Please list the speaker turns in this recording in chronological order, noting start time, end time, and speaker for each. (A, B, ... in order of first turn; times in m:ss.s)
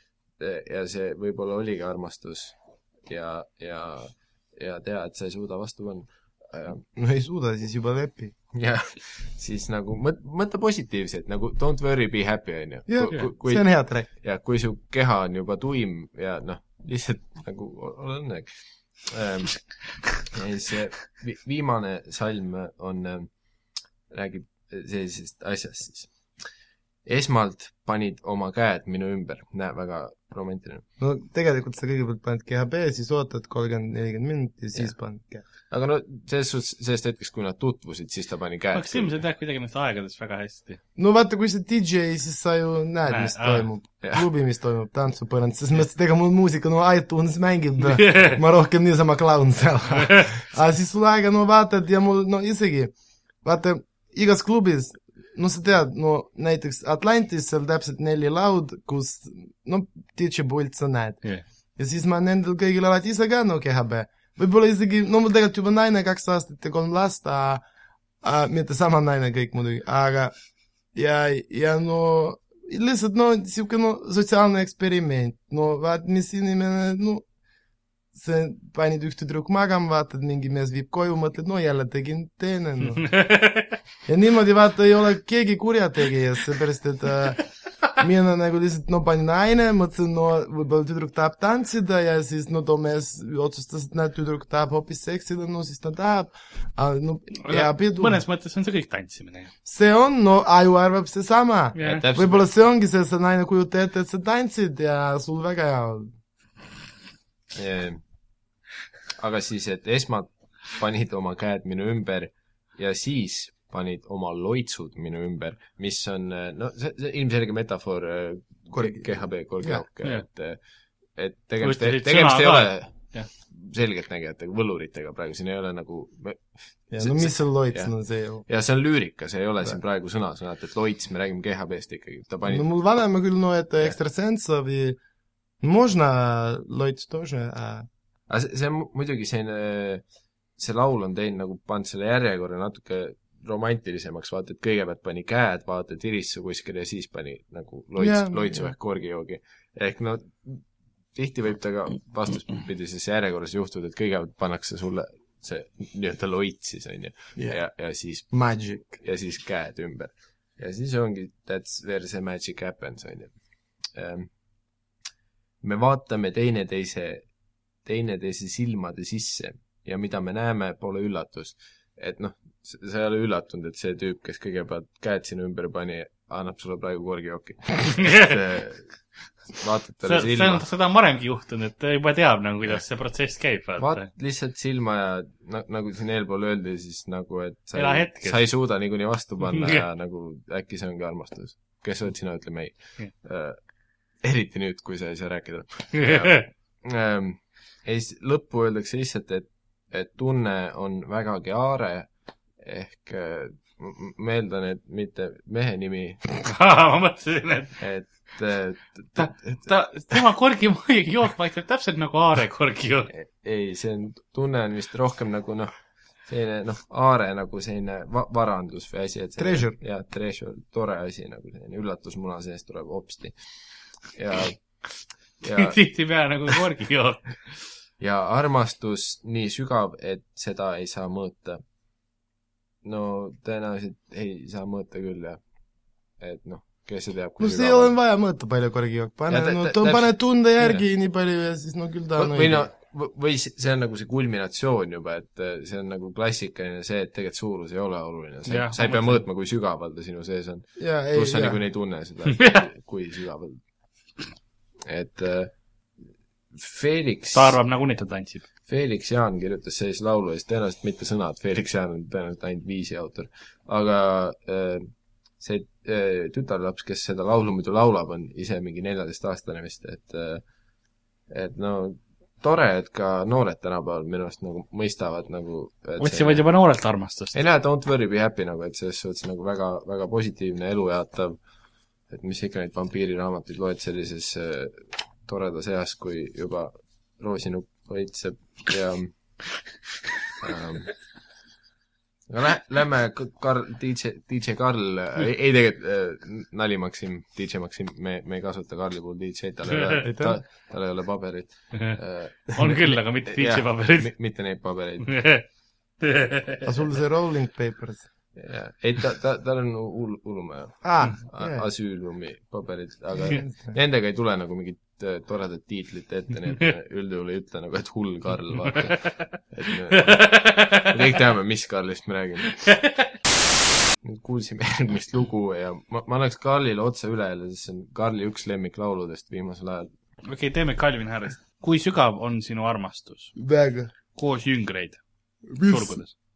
0:00.4-0:06.8 A
0:07.0-0:08.3 B
0:08.5-0:26.2 A
0:12.9-0:14.1 B
0:27.0-0:30.8 A
0:31.0-0:35.4 B
0:35.7-0:39.2 A
0:38.7-0:40.8 C
0:41.0-1:07.6 B
0:43.1-0:43.7 C
0:47.8-0:48.4 C
0:50.0-0:50.3 C
1:08.2-1:10.3 B
1:10.9-1:17.2 B
1:18.1-1:23.2 B
1:23.0-1:23.7 C
1:24.0-1:38.2 B
1:37.4-1:39.5 C
1:39.6-1:46.1 B
1:41.7-1:42.0 C
1:41.8-1:42.5 A
1:47.6-1:48.0 A
1:49.2-2:00.6 A
1:58.7-1:59.8 B
2:01.1-2:12.7 A
2:01.6-2:03.3 C
2:06.9-2:08.5 B
2:12.4-2:15.0 B
2:15.6-2:17.9 B
2:18.3-2:20.0 A
2:20.6-2:44.3 A
2:28.0-2:28.7 B
2:38.3-2:39.0 B
2:45.6-2:47.3 A
2:47.8-3:00.6 A
3:00.0-3:04.1 C
3:03.8-3:26.3 A
3:07.7-3:08.4 C
3:09.6-3:09.8 C
3:16.0-3:16.4 C
3:26.4-3:27.8 C
3:27.8-3:30.2 A
3:29.2-3:33.1 C
3:33.1-3:43.4 A
3:39.4-3:39.8 B
3:44.0-3:44.9 A
3:45.4-3:45.8 A
3:45.4-3:47.6 C
3:48.0-3:51.6 A
3:52.8-3:55.4 A
3:56.2-3:57.9 A
3:57.4-4:02.7 B
3:59.3-4:00.2 A
4:02.2-4:13.6 A
4:08.4-4:09.2 C
4:10.8-4:11.6 B
4:12.3-4:12.6 C
4:14.9-4:15.6 A
4:16.5-4:17.6 A
4:17.3-4:18.4 C
4:18.7-4:30.4 A
4:31.3-4:36.4 A
4:36.0-4:37.4 C
4:37.3-4:41.4 A
4:42.1-4:49.1 A
4:50.4-4:51.0 A
4:52.3-5:05.4 A
5:00.0-5:00.4 B
5:02.6-5:04.1 C
5:05.0-5:05.5 C
5:06.0-5:06.7 C
5:06.6-5:08.0 B
5:08.3-5:22.7 A
5:10.8-5:11.6 B
5:13.3-5:13.8 B
5:20.0-5:21.0 C
5:22.5-5:23.1 C
5:24.0-5:29.9 A
5:30.2-5:33.3 C
5:33.4-5:33.9 B
5:34.1-5:35.0 C
5:35.5-5:36.0 B
5:35.6-5:36.1 C